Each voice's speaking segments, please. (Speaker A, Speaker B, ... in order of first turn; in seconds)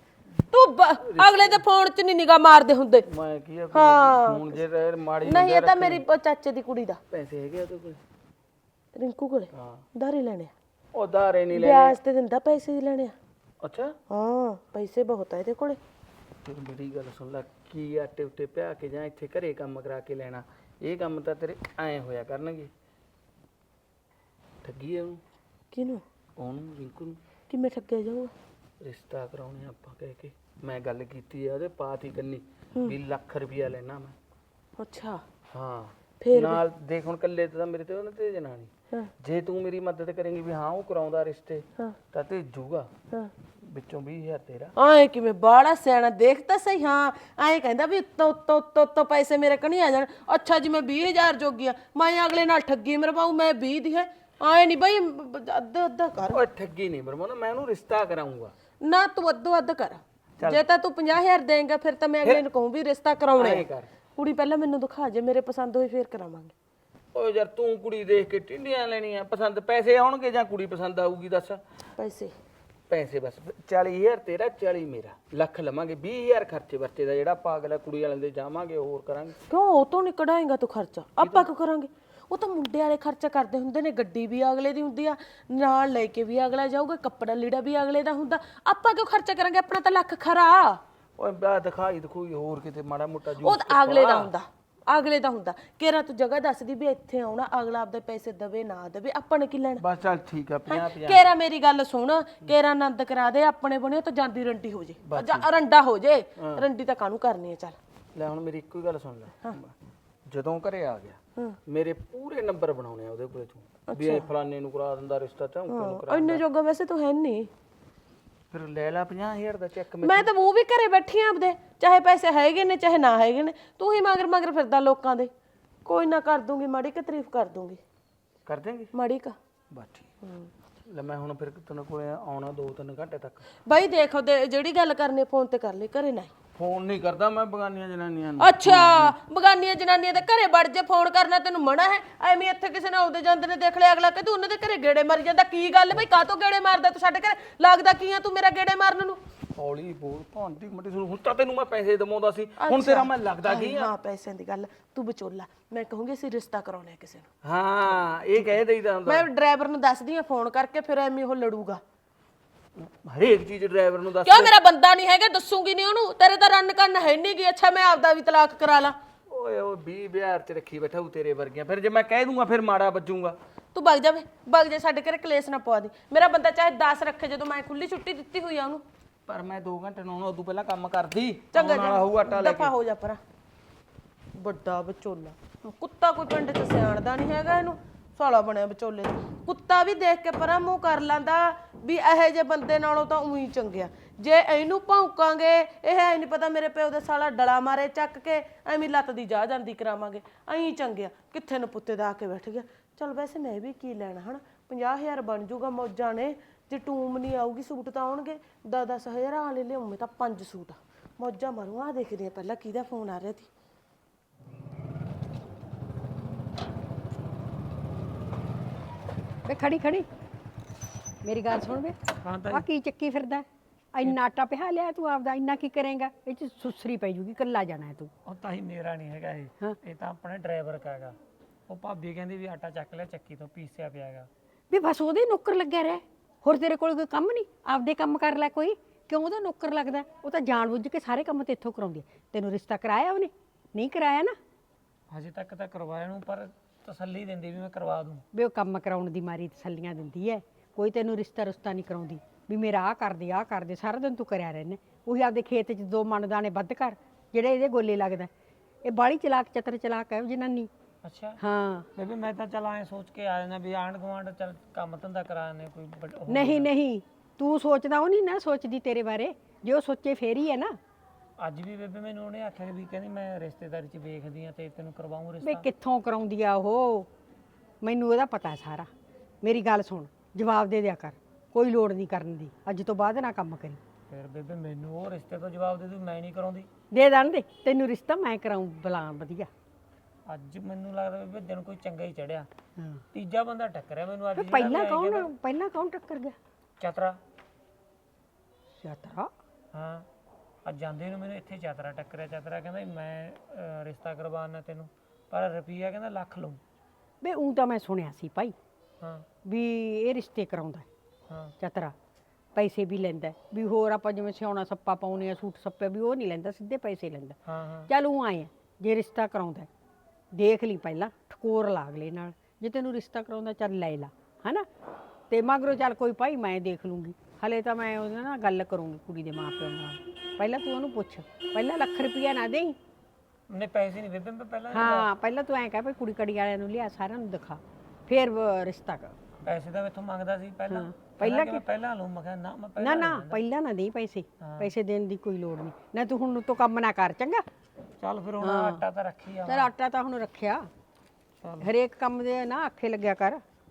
Speaker A: 0.5-3.1, 3.7-4.6, 5.2-7.0, 8.9-10.5, 11.5-13.2, 14.1-15.8, 25.7-26.0, 27.5-28.3, 34.8-35.2, 36.2-36.6, 44.8-56.4, 58.8-66.5, 72.0-72.3, 79.5-90.8, 93.4-99.8, 100.7-107.8, 113.9-114.3, 115.7-117.5, 120.0-125.3, 125.8-127.8, 128.9-129.4, 130.2-130.5, 133.6-136.3, 138.4-149.2, 152.6-157.3, 159.1-161.8, 164.2-169.0, 173.7-178.8, 181.5-183.2, 184.4-213.5
Speaker B: 1.0-1.6, 3.1-6.0, 7.1-8.0, 9.5-9.8, 10.9-12.0, 13.6-13.9, 16.4-22.7, 24.6-25.2, 26.4-27.2, 28.8-34.2, 35.5-42.9, 43.6-44.7, 56.3-58.5, 63.4-63.9, 67.1-71.6, 72.9-79.4, 81.2-81.5, 91.2-94.3, 99.8-101.2, 105.0-105.5, 106.4-106.7, 108.1-109.7, 110.3-116.4, 118.5-120.3, 128.5-128.9, 129.7-130.1, 130.9-133.5, 136.6-139.2, 149.6-153.9, 157.4-159.3, 162.8-164.5, 169.3-173.4, 179.3-182.7
Speaker C: 219.5-220.1, 221.2-222.0, 222.5-228.1, 234.7-244.4, 248.3-258.3, 258.8-260.7, 261.4-261.9, 266.3-270.8, 275.4-277.1, 277.8-278.9, 279.4-283.8, 286.9-289.5, 292.8-293.0, 294.4-296.4, 298.8-299.3, 307.2-308.6, 309.4-310.9, 311.6-311.9, 312.6-317.4, 317.9-319.7, 320.3-324.7, 325.3-332.8, 334.7-339.2, 340.7-341.6, 342.8-347.5, 348.4-348.8, 349.5-350.7, 351.6-353.4
Speaker D: 222.2-222.7, 228.2-231.2, 231.7-234.3, 245.1-248.2, 261.0-261.4, 261.9-266.7, 271.4-275.7, 284.1-286.7, 290.3-292.5, 293.1-295.3, 296.8-297.2, 299.7-300.1, 300.6-306.6, 309.0-309.3, 317.4-317.9, 333.5-335.1, 339.4-343.4, 344.4-344.7, 348.0-349.7, 351.4-351.7